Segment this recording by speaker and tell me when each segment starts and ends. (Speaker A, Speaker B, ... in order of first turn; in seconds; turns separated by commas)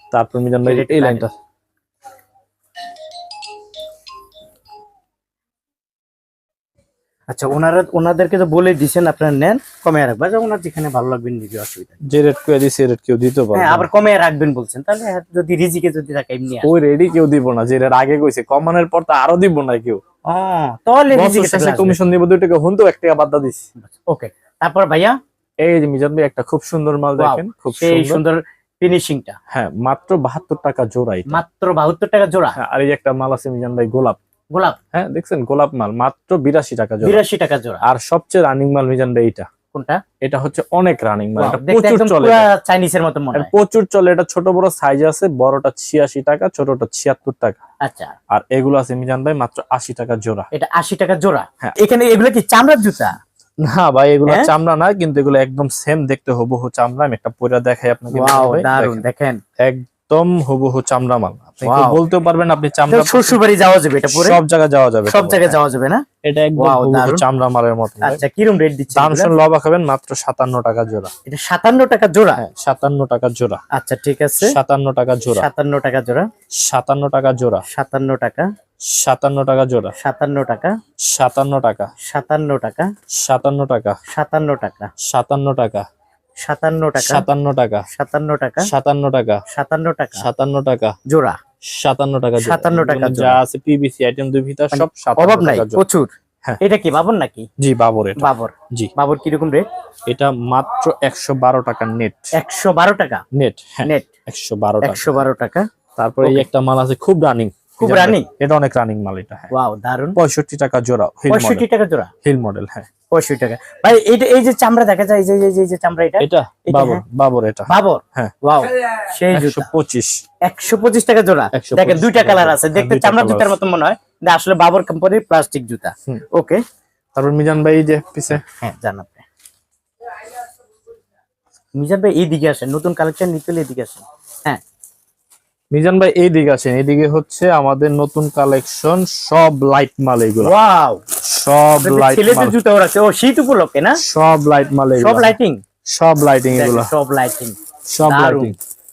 Speaker A: 0.1-1.3, Speaker B: 0.6-1.2, Speaker B: 7.3-12.0, Speaker A: 12.0-13.9, Speaker B: 13.5-16.7, Speaker A: 16.6-20.0, Speaker B: 20.2-22.0, Speaker A: 21.1-23.7, Speaker B: 23.8-25.2, Speaker A: 25.6-28.2, Speaker B: 27.2-29.4, Speaker A: 29.5-31.4, Speaker B: 31.3-32.6, Speaker A: 32.6-34.2, Speaker B: 34.5-34.8, Speaker A: 34.9-37.2, Speaker B: 37.0-37.8, Speaker A: 37.9-39.5, Speaker B: 39.7-40.0, Speaker A: 40.2-42.5, Speaker B: 41.4-43.5, Speaker A: 43.3-47.6, Speaker B: 47.8-48.1, Speaker A: 48.3-50.5, Speaker B: 50.5-53.1, Speaker A: 53.6-59.0, Speaker B: 58.1-59.4, Speaker A: 59.6-63.4, Speaker B: 61.6-62.0, Speaker B: 62.9-64.4, Speaker A: 64.1-65.6, Speaker B: 65.0-66.0, Speaker A: 66.2-68.2, Speaker B: 66.6-67.2, Speaker B: 68.0-69.3, Speaker A: 68.9-71.1, Speaker B: 71.3-72.4, Speaker A: 72.4-73.6, Speaker B: 73.7-74.5, Speaker A: 74.4-75.5, Speaker B: 75.3-76.3, Speaker A: 76.6-77.6, Speaker B: 77.7-78.5, Speaker A: 78.9-79.9, Speaker B: 80.0-80.7, Speaker A: 81.1-81.9, Speaker B: 82.0-82.9, Speaker A: 83.1-84.0, Speaker B: 84.1-84.9, Speaker A: 85.0-85.9, Speaker B: 86.4-87.2, Speaker A: 87.0-87.9, Speaker B: 87.9-88.7, Speaker A: 88.6-89.4, Speaker B: 89.5-90.2, Speaker A: 90.2-91.0, Speaker B: 91.1-91.4, Speaker A: 91.6-95.8, Speaker B: 92.4-93.4, Speaker B: 94.7-97.5, Speaker A: 97.6-98.9, Speaker B: 98.2-99.6, Speaker A: 100.1-102.2, Speaker B: 102.3-103.2, Speaker A: 103.3-105.2, Speaker B: 104.8-105.7, Speaker A: 106.0-109.5, Speaker B: 107.8-108.3, Speaker B: 109.5-110.2, Speaker A: 110.2-111.6, Speaker B: 111.3-112.1, Speaker A: 112.2-112.9, Speaker B: 113.1-117.0, Speaker A: 116.2-118.3, Speaker B: 117.7-119.7, Speaker A: 119.3-120.2, Speaker B: 120.4-126.6, Speaker A: 121.5-123.5, Speaker A: 127.2-128.4, Speaker B: 128.4-129.2, Speaker B: 131.8-134.6, Speaker A: 135.7-140.5, Speaker B: 140.4-141.0, Speaker A: 141.2-142.6, Speaker B: 141.8-144.0, Speaker A: 144.0-145.3, Speaker B: 145.0-145.6, Speaker A: 145.9-146.9, Speaker B: 146.5-148.5, Speaker A: 147.9-148.5